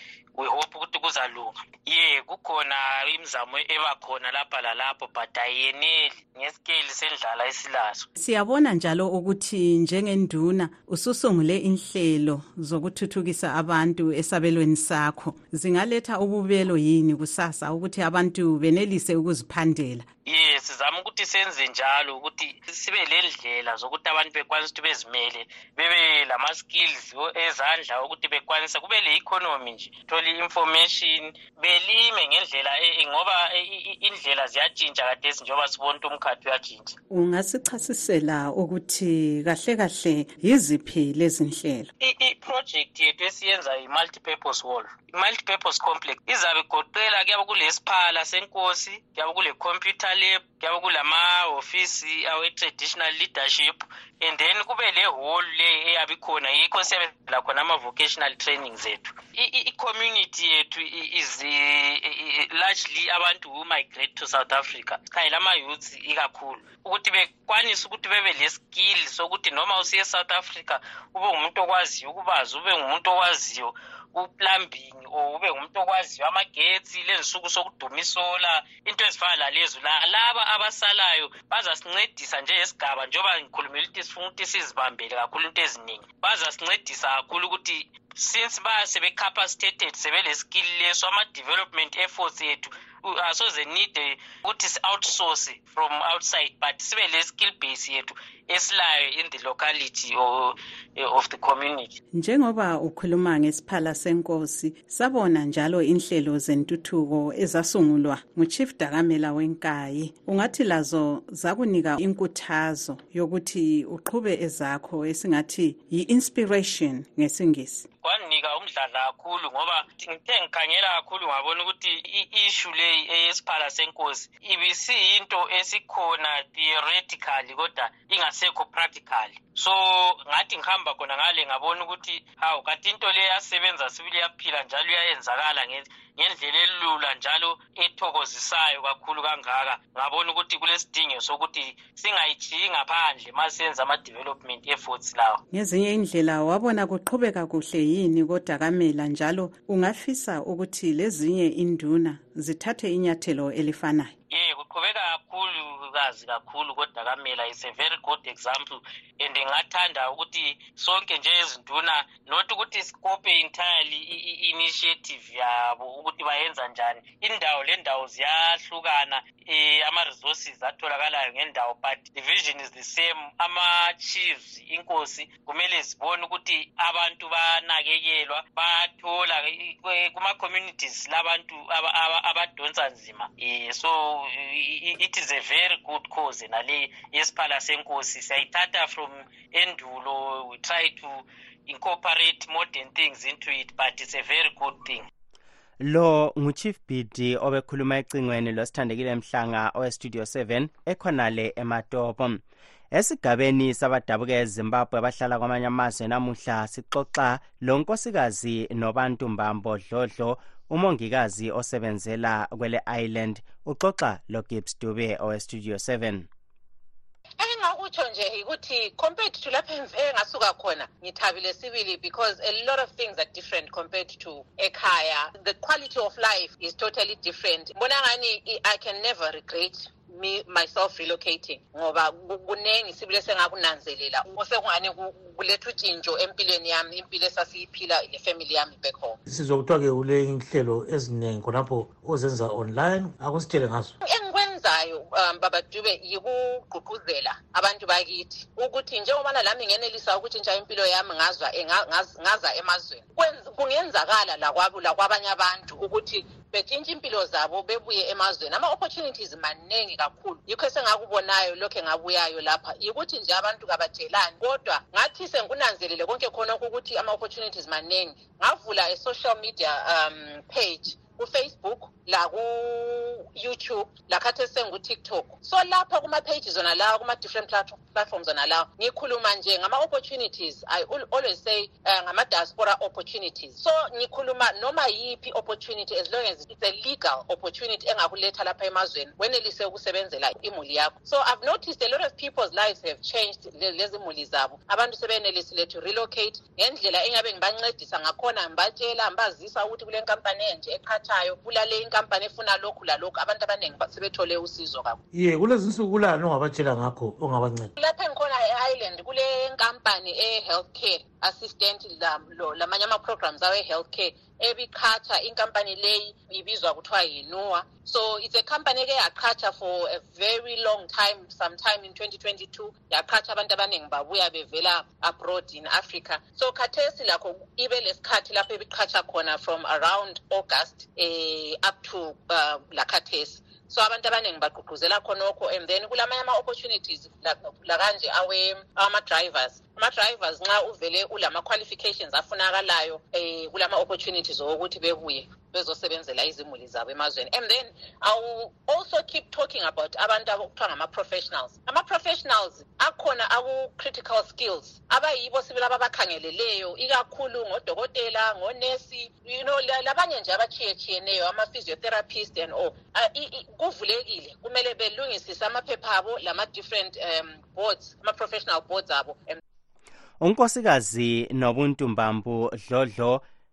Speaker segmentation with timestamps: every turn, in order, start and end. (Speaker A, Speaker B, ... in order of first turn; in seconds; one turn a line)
Speaker A: 0.4-8.1
Speaker B: 8.2-20.1
Speaker A: 20.3-37.0
Speaker B: 37.1-41.9
Speaker A: 42.0-102.0
Speaker B: 102.1-117.9
Speaker A: 118.0-145.4
Speaker B: 145.5-154.1
Speaker A: 154.3-195.1
Speaker C: 195.8-216.3
Speaker D: 217.4-239.2
Speaker E: 239.3-243.9
Speaker D: 244.0-305.0
Speaker E: 305.1-307.7
Speaker D: 307.8-369.4
Speaker C: 370.2-373.2